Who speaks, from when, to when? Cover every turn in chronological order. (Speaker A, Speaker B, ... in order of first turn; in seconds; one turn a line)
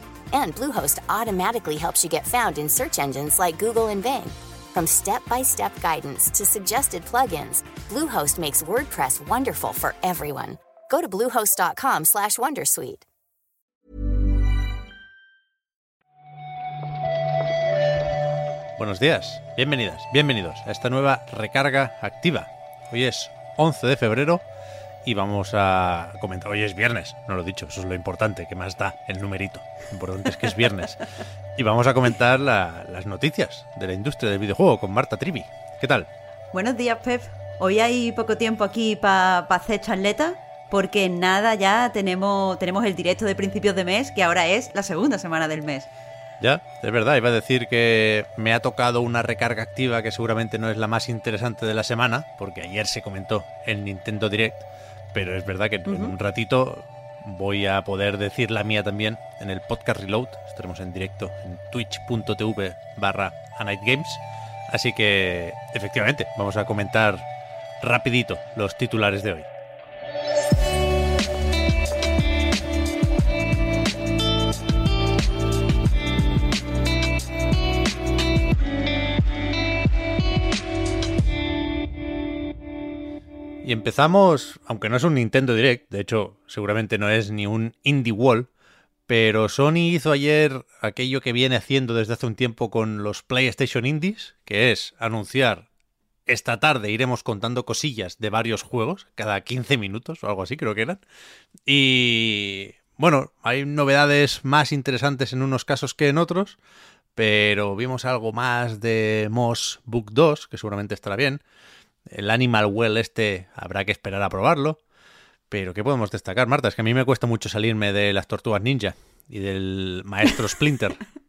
Speaker A: 0.3-13.0
Speaker B: 18.8-24.4
Speaker B: 25.0-36.1
Speaker C: 36.5-45.9
Speaker B: 46.4-67.2
Speaker C: 55.9-56.1
Speaker B: 67.8-69.5
Speaker B: 83.6-88.5
Speaker B: 89.1-95.7
Speaker B: 96.3-101.0
Speaker B: 101.7-106.6
Speaker B: 107.2-111.4
Speaker B: 112.1-114.8
Speaker B: 115.5-121.0